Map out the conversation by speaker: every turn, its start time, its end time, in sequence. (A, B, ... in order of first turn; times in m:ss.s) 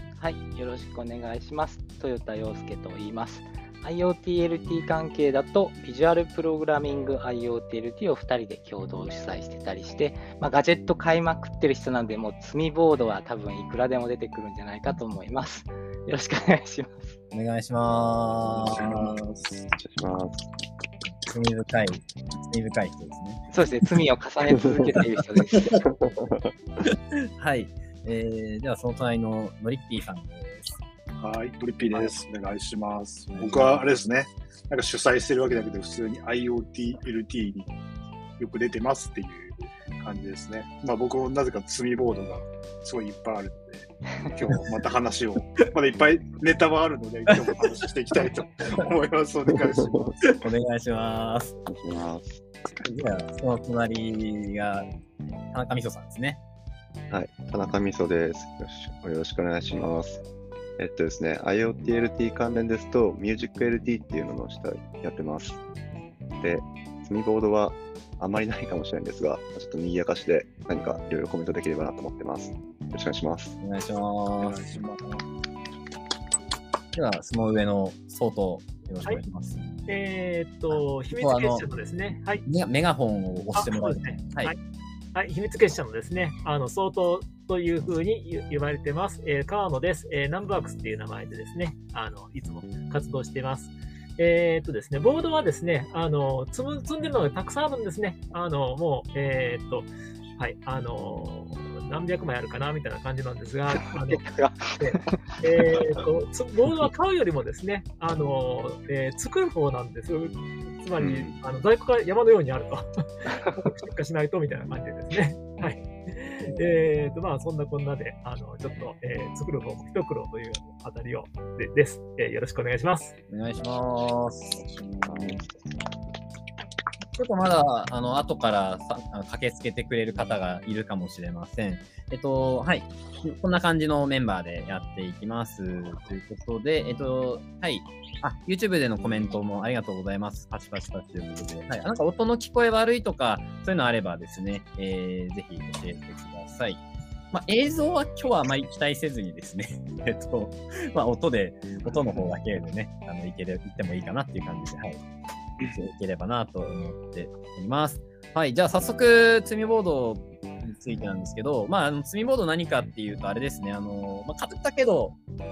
0:00.2-0:17.2 A
0:17.3-0:19.2 B
0:18.7-0:19.6 C
0:19.8-0:20.5 D
0:21.2-0:23.4 B
0:23.5-0:25.7 A
0:25.8-0:26.5 D
0:26.9-0:30.8 B
0:31.2-0:37.7 C
0:33.3-0:33.8 B
0:38.4-0:50.2 C
0:49.6-0:50.1 D
0:50.2-0:51.6 B
0:51.7-0:52.4 D
0:52.8-0:54.8 B
0:55.5-0:56.4 B
0:57.1-1:00.2 D
1:00.8-1:05.6 D
1:06.4-1:13.6 D
1:13.6-1:14.6 B
1:14.4-1:15.2 C
1:16.9-1:19.6 B
1:19.9-1:22.4 E
1:20.7-1:21.6 B
1:22.4-1:24.6 B
1:23.5-1:24.6 E
1:25.2-1:52.9 E
1:44.1-1:45.2 A
1:51.0-1:51.4 D
1:53.4-2:03.1 E
2:03.3-2:04.6 B
2:04.6-2:05.4 C
2:05.1-2:05.4 D
2:07.2-2:35.0 B
2:31.7-2:32.3 C
2:35.6-2:45.2 B